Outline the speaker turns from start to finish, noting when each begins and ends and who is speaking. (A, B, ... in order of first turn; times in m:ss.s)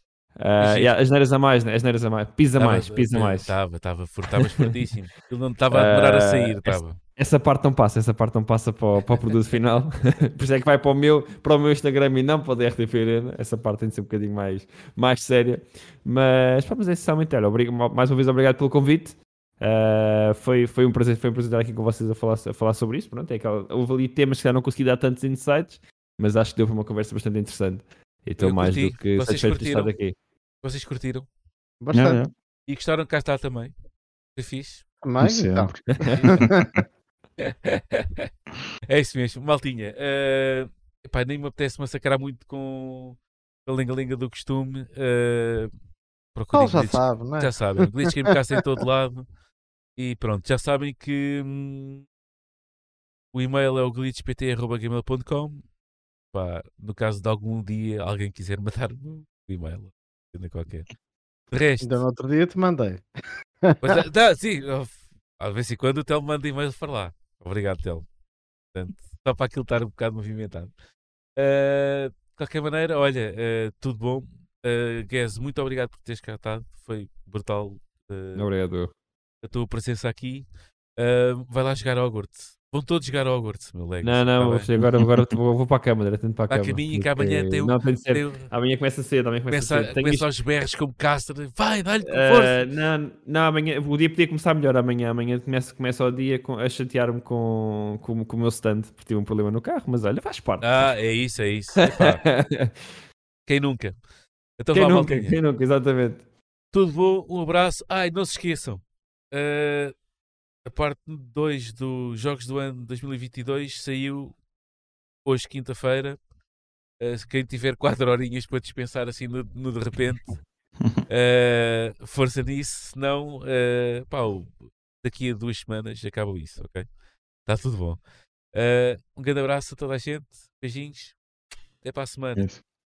0:00.4-0:03.6 A
0:00.6-0:00.9 B
0:02.6-0:07.0 B
0:05.7-0:30.2 A
0:28.4-0:29.9 B
0:30.6-0:31.3 B
0:31.8-0:32.2 C
0:31.9-0:32.3 D
0:32.7-0:33.7 B
0:34.4-0:34.9 B
0:35.0-0:36.6 C
0:35.2-0:36.8 D
0:36.1-0:36.4 B
0:37.4-0:38.3 B
0:38.9-0:45.7 B
0:46.3-0:49.3 B
0:46.5-0:47.9 C
0:50.0-0:52.1 B
0:53.3-0:55.7 B
0:56.3-1:00.9 B
1:01.5-1:02.0 B
1:01.8-1:03.0 C
1:03.6-1:04.0 C
1:03.8-1:08.1 B
1:08.7-1:10.7 B
1:11.4-1:18.5 B
1:18.4-1:18.9 A
1:19.4-1:24.7 B
1:24.0-1:30.3 A
1:26.5-1:28.5 B
1:29.5-1:32.7 B
1:32.0-1:40.9 A
1:40.6-1:42.2 B
1:41.9-1:42.8 A
1:43.5-1:44.0 B
1:44.6-1:45.4 B
1:44.7-1:46.2 A
1:46.7-1:50.0 B
1:50.6-1:54.4 B
1:55.2-1:56.2 B
1:57.0-2:00.4 B
2:01.1-2:06.9 B
2:07.4-2:11.2 B
2:11.8-2:12.6 B
2:12.4-2:12.6 D